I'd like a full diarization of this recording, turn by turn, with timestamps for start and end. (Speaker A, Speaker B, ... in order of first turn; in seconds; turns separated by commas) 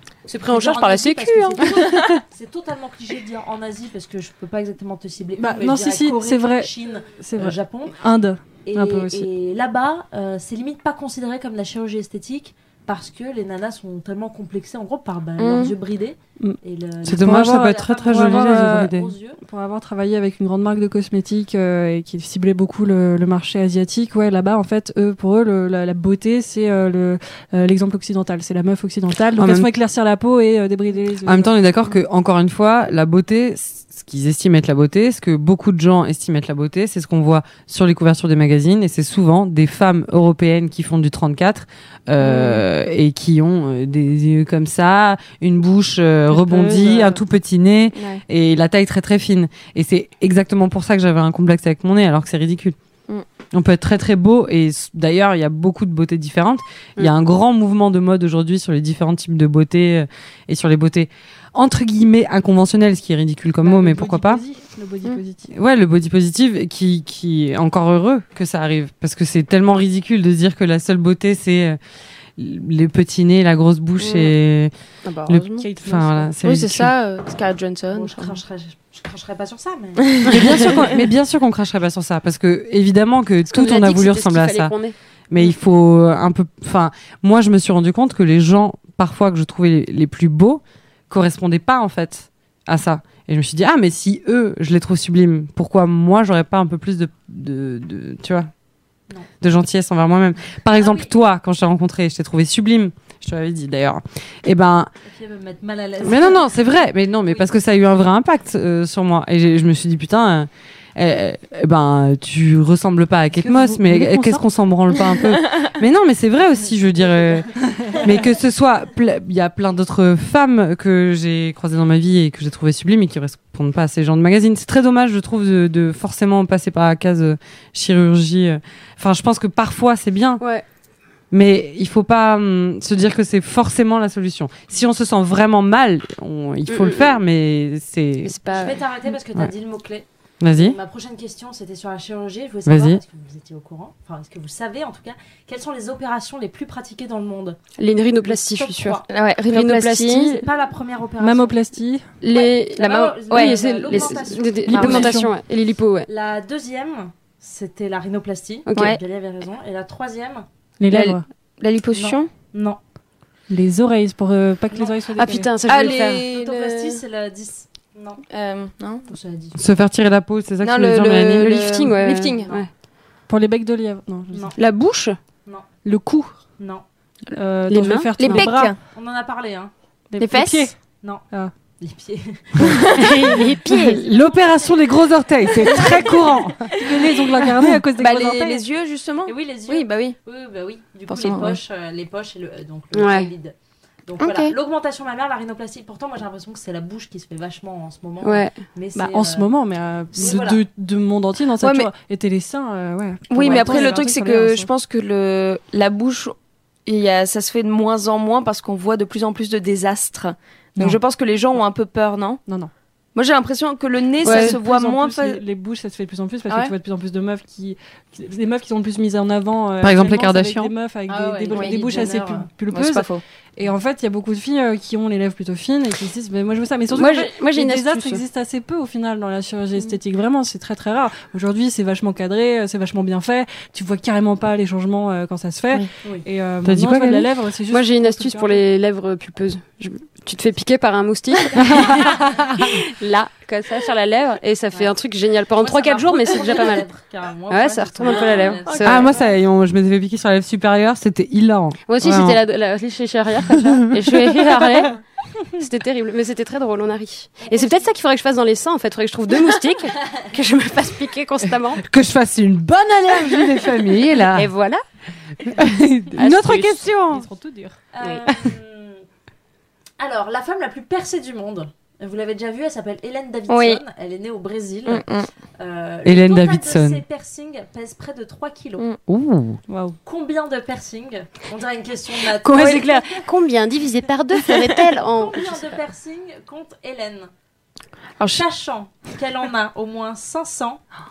Speaker A: 0.3-1.9, Speaker B: 0.5-8.1, Speaker C: 5.4-9.3, Speaker B: 8.6-19.4, Speaker D: 15.4-15.8, Speaker E: 17.0-19.1, Speaker C: 17.2-31.5, Speaker E: 29.4-29.7, Speaker E: 31.2-52.8, Speaker D: 42.2-42.6, Speaker C: 46.3-47.2, Speaker D: 47.9-48.2, Speaker E: 53.5-64.4, Speaker C: 63.6-65.5, Speaker E: 65.5-71.8, Speaker E: 72.4-74.7, Speaker D: 74.0-74.3, Speaker D: 75.0-75.7, Speaker E: 75.3-76.9, Speaker C: 75.6-76.3, Speaker D: 76.4-78.4, Speaker B: 77.9-80.8, Speaker D: 80.0-80.9, Speaker E: 80.2-84.7, Speaker A: 83.5-85.0, Speaker E: 85.3-98.5, Speaker E: 99.4-104.9, Speaker B: 100.8-101.1, Speaker B: 105.0-106.7, Speaker E: 106.0-130.4, Speaker C: 113.4-114.4, Speaker B: 117.2-118.2, Speaker C: 117.6-118.1, Speaker A: 130.4-130.7, Speaker E: 131.3-138.3, Speaker A: 136.7-137.2, Speaker A: 138.2-138.8, Speaker B: 138.5-147.6, Speaker E: 140.4-140.8, Speaker E: 142.7-143.0, Speaker A: 147.8-150.4, Speaker B: 148.2-149.1, Speaker D: 149.1-150.4, Speaker B: 150.3-151.6, Speaker C: 151.2-152.1, Speaker A: 152.2-156.1, Speaker B: 152.3-155.2, Speaker D: 152.8-155.1, Speaker C: 154.7-155.3, Speaker B: 156.1-160.5, Speaker A: 158.7-158.9, Speaker C: 160.8-161.2, Speaker D: 160.9-162.3, Speaker B: 161.9-162.8, Speaker C: 163.5-165.5, Speaker A: 165.2-166.2, Speaker D: 165.7-167.0, Speaker B: 165.7-168.2, Speaker D: 168.3-169.1, Speaker B: 169.1-169.6, Speaker E: 169.6-171.6, Speaker D: 170.6-172.6, Speaker A: 171.4-172.7, Speaker C: 173.3-174.6, Speaker A: 174.6-175.2, Speaker C: 175.8-176.4, Speaker B: 176.6-176.8, Speaker C: 177.3-178.8, Speaker A: 177.7-178.5, Speaker D: 178.2-178.8, Speaker B: 178.9-179.7, Speaker C: 180.1-180.8, Speaker D: 180.2-180.7, Speaker B: 181.0-181.3, Speaker B: 181.8-187.2, Speaker D: 182.6-183.3, Speaker A: 182.9-184.0, Speaker E: 183.6-187.9, Speaker C: 186.6-188.6, Speaker D: 187.9-190.2, Speaker B: 189.3-193.5, Speaker D: 191.1-191.6, Speaker A: 192.9-193.3, Speaker B: 194.1-199.5, Speaker D: 194.2-194.5, Speaker A: 198.2-198.6, Speaker C: 199.0-204.7, Speaker B: 200.1-200.6, Speaker D: 201.6-201.9, Speaker D: 203.3-206.3, Speaker B: 203.4-204.0, Speaker D: 206.9-212.4, Speaker C: 212.5-212.7, Speaker D: 213.2-215.4, Speaker A: 214.2-214.6, Speaker C: 214.2-238.6, Speaker D: 216.5-216.7, Speaker E: 219.8-220.7, Speaker B: 221.1-222.5, Speaker D: 221.5-222.2, Speaker D: 222.7-223.2, Speaker A: 226.9-228.2, Speaker E: 236.6-237.3, Speaker A: 237.7-246.9, Speaker E: 241.6-242.5, Speaker B: 245.6-249.4, Speaker A: 247.5-249.1, Speaker E: 248.8-252.4, Speaker A: 251.9-255.0, Speaker E: 253.5-254.9, Speaker A: 255.6-261.8, Speaker B: 257.4-257.9, Speaker E: 261.8-264.5, Speaker A: 264.2-264.8, Speaker E: 265.5-267.3, Speaker A: 266.2-266.7, Speaker C: 266.3-267.8, Speaker B: 267.9-269.0, Speaker B: 270.0-275.1, Speaker D: 273.5-273.8, Speaker D: 274.9-275.3, Speaker B: 275.6-278.9, Speaker E: 276.0-277.0, Speaker E: 279.1-279.6, Speaker C: 279.7-280.0, Speaker B: 280.0-283.3, Speaker A: 282.2-285.8, Speaker B: 285.0-287.3, Speaker D: 288.2-288.4, Speaker B: 288.3-290.8